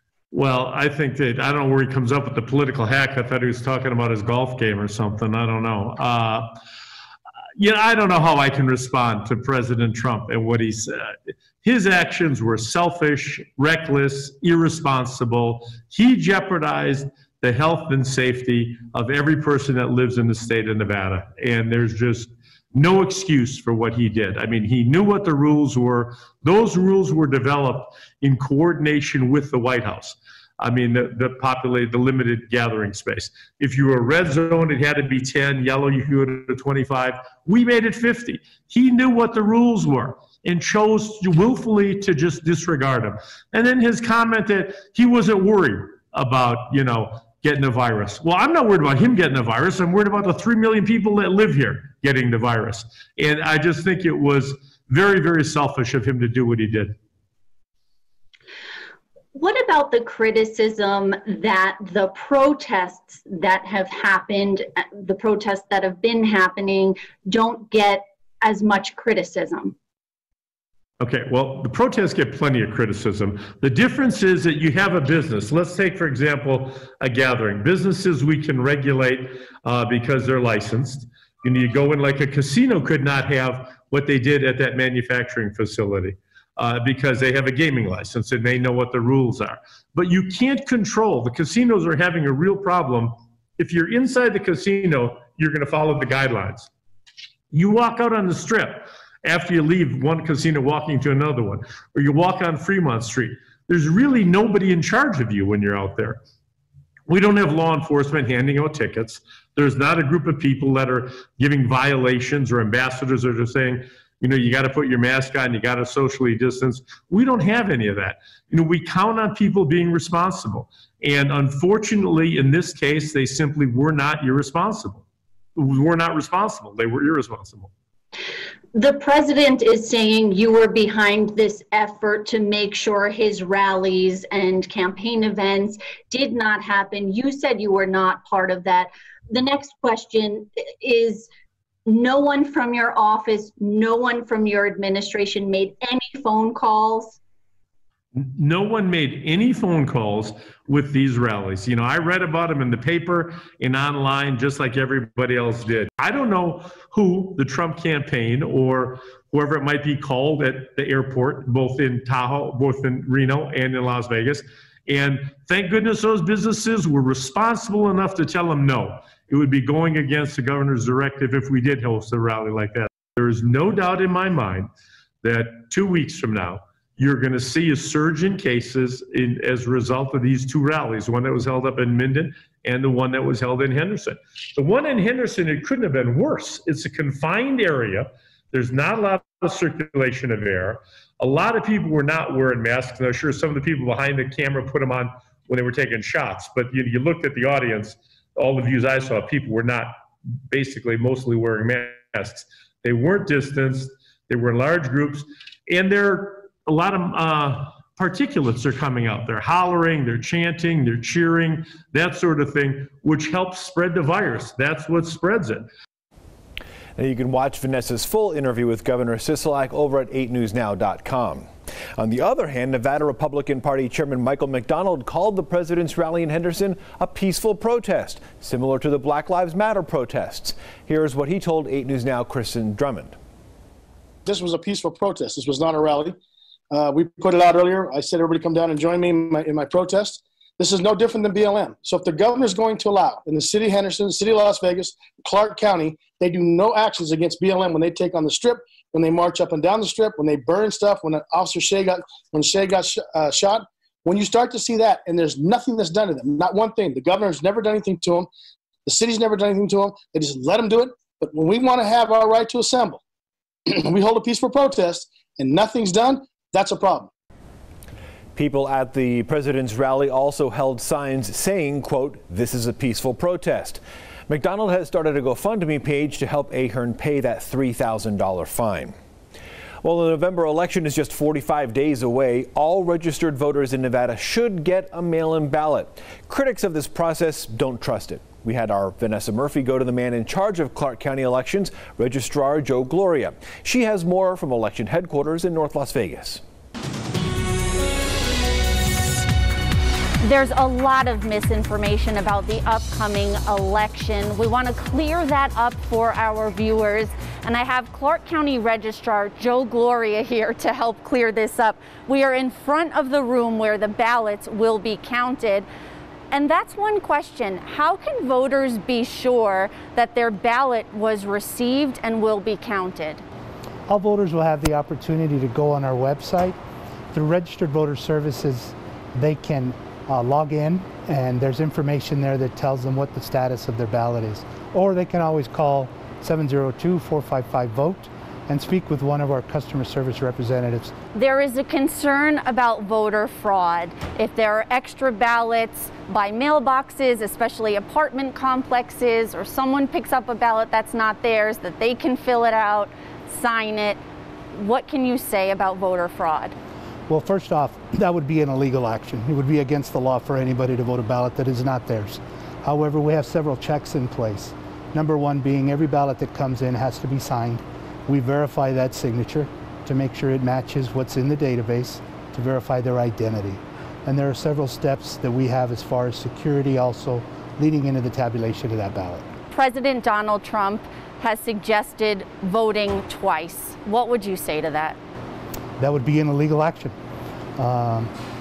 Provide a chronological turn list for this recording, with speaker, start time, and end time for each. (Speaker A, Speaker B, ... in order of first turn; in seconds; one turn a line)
Speaker A: 0.3-6.5
Speaker A: 7.6-57.0
Speaker B: 59.3-69.8
Speaker A: 71.0-96.7
Speaker A: 97.5-106.2
Speaker A: 107.1-125.0
Speaker A: 125.6-127.7
Speaker B: 128.7-141.3
Speaker B: 141.9-147.2
Speaker A: 148.2-174.7
Speaker A: 175.2-199.9
Speaker A: 200.5-215.7
Speaker C: 217.0-233.2
Speaker D: 234.3-236.2
Speaker D: 236.7-258.3
Speaker D: 258.9-263.0
Speaker D: 263.7-267.1
Speaker C: 268.4-279.0
Speaker C: 279.8-296.4
Speaker E: 300.2-315.7
Speaker E: 316.3-323.2
Speaker F: 323.9-326.6
Speaker F: 327.1-340.9
Speaker E: 341.1-354.0
Speaker E: 354.5-356.6
Speaker F: 357.1-379.3
Speaker E: 379.5-385.0
Speaker F: 385.8-387.0
Speaker F: 387.6-388.1